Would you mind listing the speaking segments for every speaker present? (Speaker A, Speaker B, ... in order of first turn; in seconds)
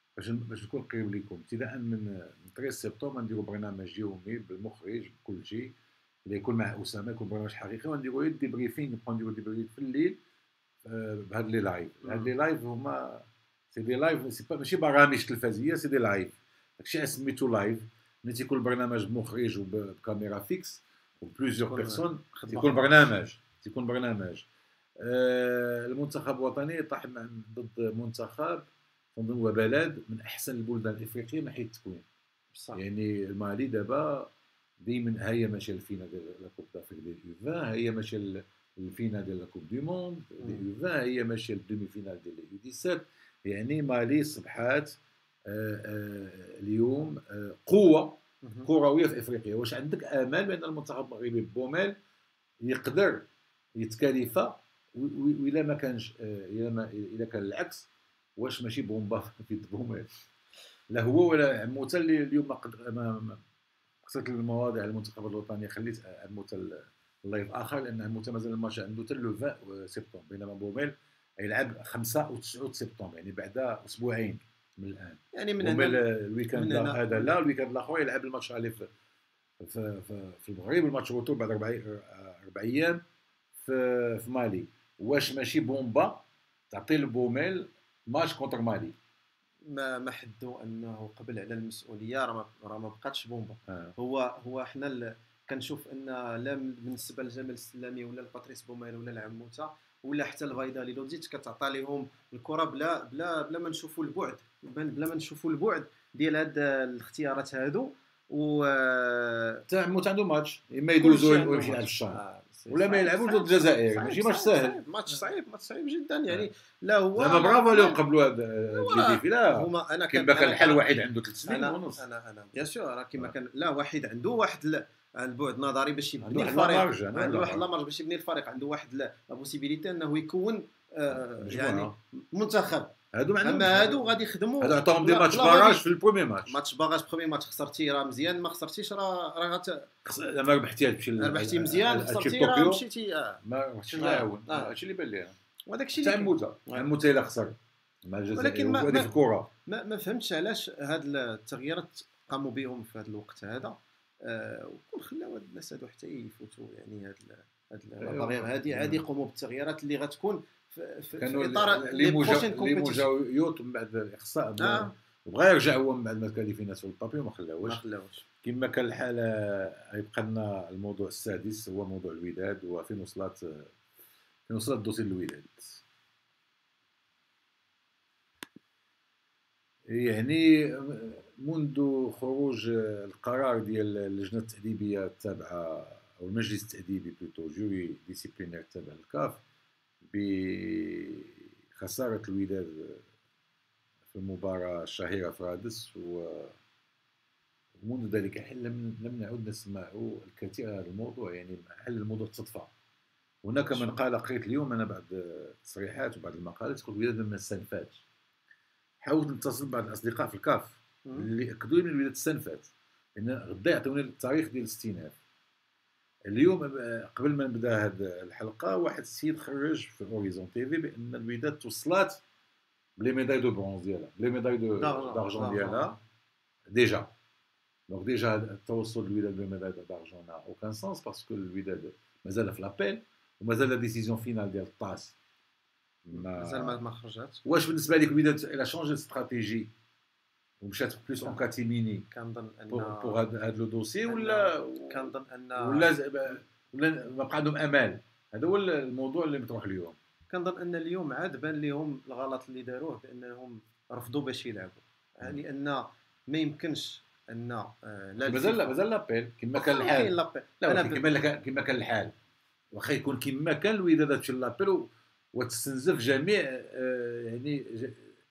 Speaker A: 0.1-5.8, 6.3-10.2, 10.8-24.5, 25.0-32.0, 32.7-45.0, 45.5-51.9, 52.6-53.3, 53.8-60.1, 60.9-63.4, 64.0-78.9, 79.6-83.0, 83.6-88.9, 109.7-115.2, 117.2-122.0, 126.2-127.7, 131.1-131.9, 133.1-136.6, 140.0-142.8, 143.4-145.3, 146.0-149.5, 158.0-159.0, 161.2-167.8, 168.4-173.7, 174.5-175.8, 179.9-189.4, 190.0-193.0, 194.1-196.6, 197.8-202.7, 203.4-208.0, 209.0-215.1, 216.3-222.2, 223.0-225.9, 226.7-227.1, 227.9-235.1, 236.0-236.8, 237.4-239.7, 240.6-242.1, 242.7-250.0, 258.2-262.1, 262.7-268.1
Speaker B: 12.0-12.3, 21.6-23.1, 32.5-32.8, 40.4-40.6, 48.4-48.7, 75.3-77.3, 89.7-109.6, 111.0-118.0, 118.7-120.9, 121.4-135.8, 136.5-139.9, 141.2-143.4, 143.9-144.7, 145.7-146.9, 148.3-149.1, 149.7-163.1, 164.6-164.9, 167.6-168.2, 203.6-204.0, 224.8-226.0, 236.1-237.4, 242.1-243.2, 244.1-245.9, 250.3-258.8, 259.5-261.1